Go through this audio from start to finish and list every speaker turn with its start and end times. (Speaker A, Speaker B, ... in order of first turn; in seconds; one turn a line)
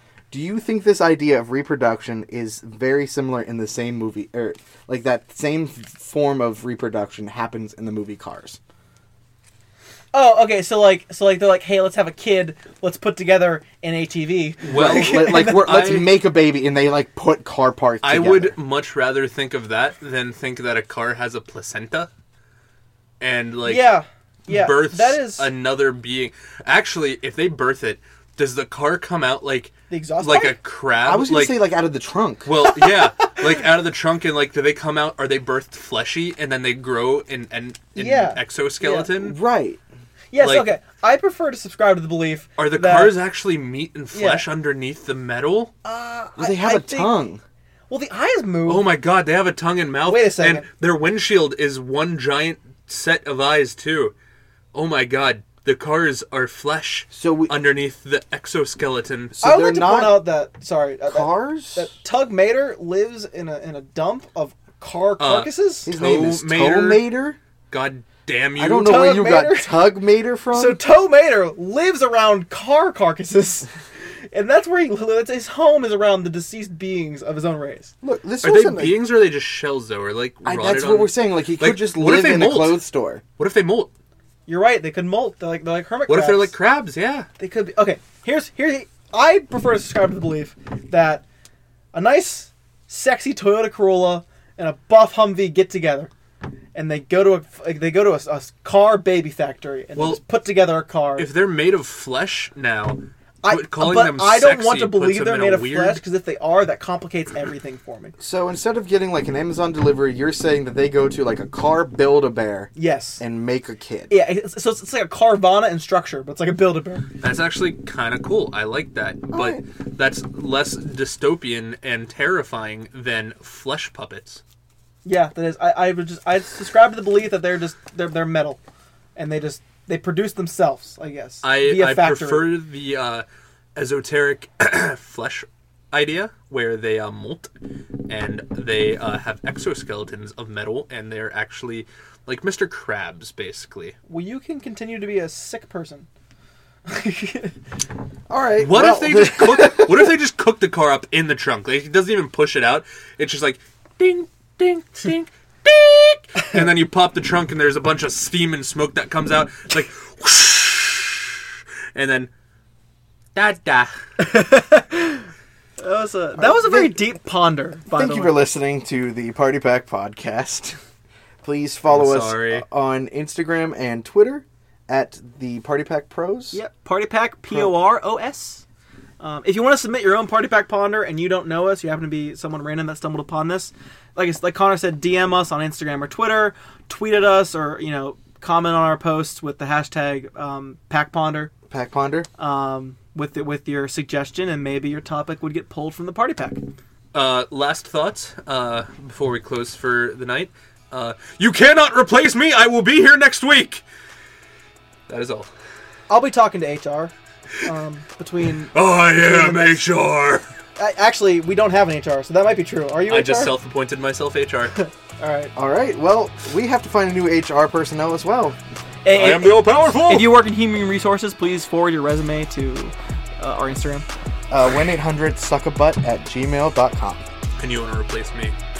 Speaker A: 0.3-8.6
Speaker B: 10.1-16.0
Speaker C: 14.6-16.1
Speaker A: 14.7-18.6
Speaker C: 18.0-22.1
Speaker C: 23.2-23.9
Speaker B: 23.6-25.5
Speaker C: 24.5-31.6
Speaker B: 29.9-30.6
Speaker A: 31.0-32.5
Speaker C: 32.5-39.4
Speaker B: 38.0-39.1
Speaker A: 39.1-39.8
Speaker B: 40.3-43.2
Speaker C: 40.4-40.7
Speaker C: 42.6-45.7
Speaker B: 44.1-44.5
Speaker B: 45.8-47.2
Speaker A: 46.4-47.4
Speaker B: 47.9-48.9
Speaker C: 48.7-54.1
Speaker B: 50.1-50.7
Speaker C: 54.7-59.4
Speaker A: 57.1-57.5
Speaker A: 59.3-60.3
Speaker B: 59.4-65.9
Speaker A: 61.1-61.9
Speaker C: 65.2-67.1
Speaker A: 65.8-67.4
Speaker C: 67.7-68.9
Speaker A: 68.6-70.8
Speaker B: 68.7-69.8
Speaker B: 70.5-73.7
Speaker B: 74.3-77.9
Speaker A: 78.0-79.0
Speaker C: 78.4-82.8
Speaker A: 80.4-83.2
Speaker C: 83.4-83.9
Speaker B: 84.5-86.5
Speaker C: 86.1-87.3
Speaker B: 87.4-91.2
Speaker B: 91.9-96.1
Speaker B: 96.7-101.3
Speaker C: 100.0-100.2
Speaker C: 101.2-106.0
Speaker B: 103.4-108.1
Speaker A: 108.2-114.1
Speaker B: 112.8-113.2
Speaker B: 114.1-117.1
Speaker C: 117.2-124.4
Speaker A: 119.3-119.6
Speaker B: 125.0-128.6
Speaker B: 129.2-132.6
Speaker C: 131.4-133.2
Speaker C: 133.8-137.5
Speaker C: 138.1-143.9
Speaker B: 144.1-146.1
Speaker B: 146.9-147.5
Speaker A: 148.3-150.1
Speaker C: 148.6-161.4
Speaker C: 161.9-162.3
Speaker C: 163.3-163.9
Speaker B: 164.2-165.3
Speaker B: 165.8-168.3
Speaker A: 166.4-167.1
Speaker A: 167.9-170.8
Speaker A: 171.4-176.6
Speaker C: 171.9-172.6
Speaker B: 176.5-178.6
Speaker B: 179.2-191.5
Speaker A: 191.7-192.3
Speaker B: 192.4-196.6
Speaker C: 197.1-203.8
Speaker C: 205.1-205.5
Speaker B: 206.1-209.8
Speaker C: 208.7-210.4
Speaker B: 210.8-213.5
Speaker C: 213.1-214.8
Speaker B: 214.8-215.5
Speaker A: 215.6-218.6
Speaker B: 219.1-224.1
Speaker C: 219.1-220.4
Speaker A: 224.5-227.2
Speaker C: 227.6-228.6